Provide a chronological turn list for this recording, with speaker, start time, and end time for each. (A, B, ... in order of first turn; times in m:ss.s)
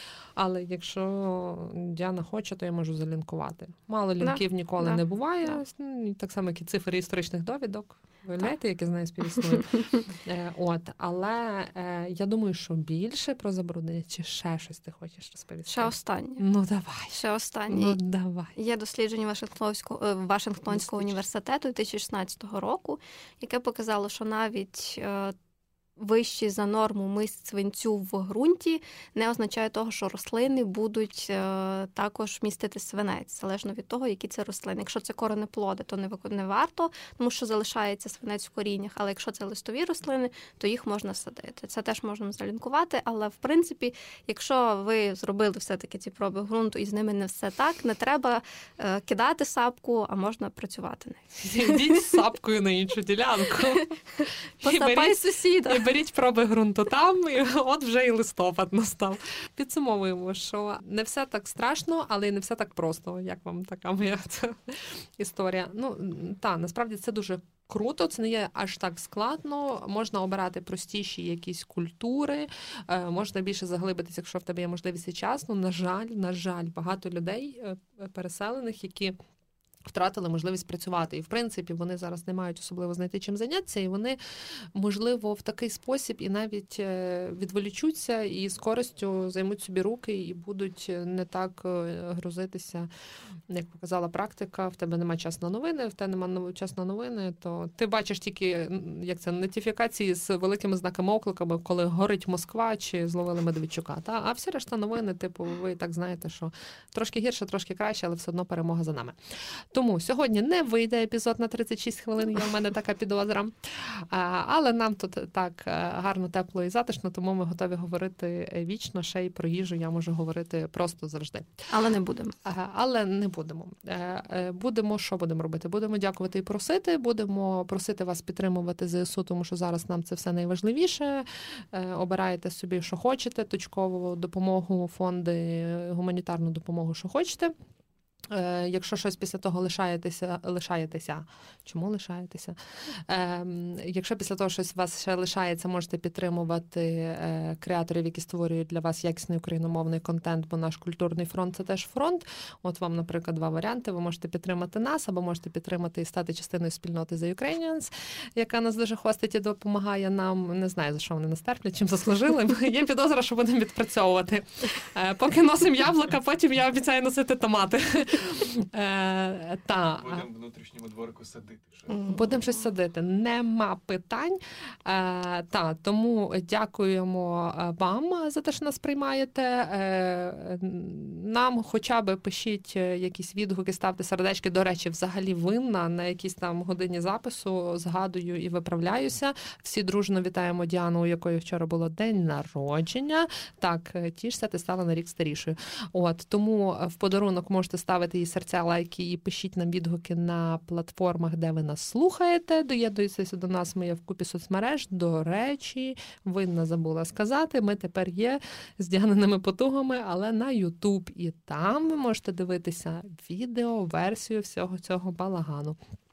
0:00.4-0:17.2 A
0:04.2-0:05.6 B
0:09.6-0:10.0 B
0:15.7-0:16.4 B
0:17.1-0:18.0 B
0:17.7-0:18.5 A
0:18.5-0:25.3 B
0:20.7-0:21.2 A
0:26.0-0:52.1 B
0:51.3-0:53.9 A
0:54.6-0:55.9 B
0:54.6-1:19.2 A
1:19.8-1:32.9 A
1:33.5-2:01.6 A
2:01.7-2:02.3 B
2:02.4-2:17.5 A
2:18.3-2:50.2 A
2:50.0-2:52.1 C
2:51.9-3:35.8 A